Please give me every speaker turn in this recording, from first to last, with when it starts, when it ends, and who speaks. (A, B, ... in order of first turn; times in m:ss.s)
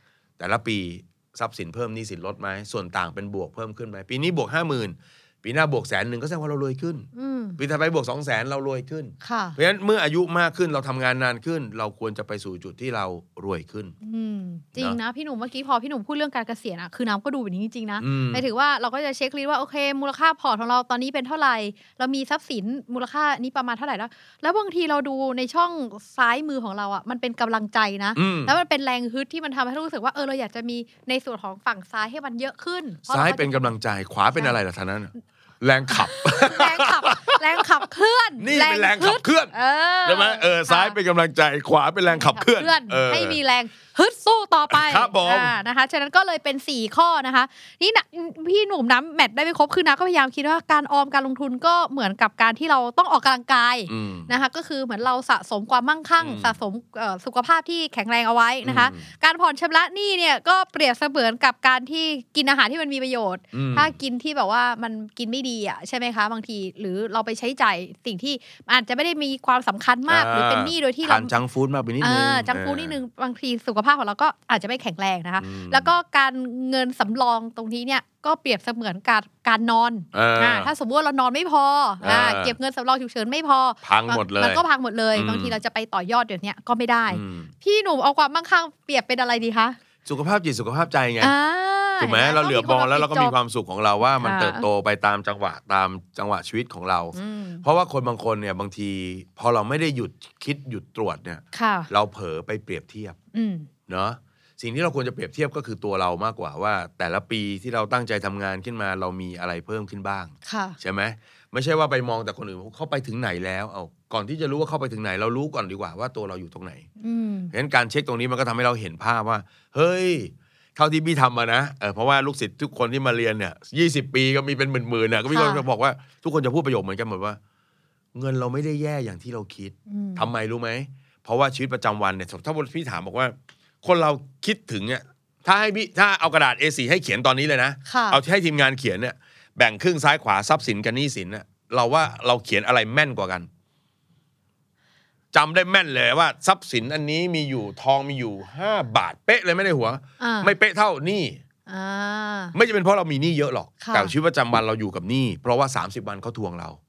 0:00.4-0:14.0 A
0:07.1-0:07.6 B
0:09.2-0:09.6 B
0:14.0-0:33.7 B
0:18.0-0:18.4 A
0:28.2-0:28.5 A
0:33.1-0:37.6 A
0:36.0-0:41.0 B
0:38.4-0:39.5 A
0:40.0-0:43.4 A
0:42.1-1:11.3 B
0:44.7-0:45.6 A
0:53.9-0:54.3 A
0:56.2-0:56.6 A
0:58.6-0:59.1 A
1:03.5-1:04.0 A
1:10.1-1:13.0 A
1:12.0-1:29.8 B
1:15.4-1:15.9 A
1:20.1-1:20.7 A
1:22.0-1:22.6 A
1:23.8-1:25.6 A
1:27.1-1:27.5 A
1:30.0-1:31.4 A
1:31.2-1:33.4 B
1:32.0-1:43.2 A
1:34.1-1:34.6 B
1:37.1-1:37.6 B
1:41.5-1:41.9 B
1:43.3-1:43.7 B
1:43.9-1:56.9 A
1:50.5-1:50.8 B
1:57.0-1:57.5 B
1:57.5-2:07.4 A
2:05.3-2:05.6 B
2:08.2-2:23.5 A
2:09.9-2:10.3 B
2:17.9-2:18.2 B
2:25.3-2:31.4 A
2:30.2-2:30.5 B
2:31.7-2:32.6 B
2:32.5-2:36.8 A
2:33.8-2:34.1 B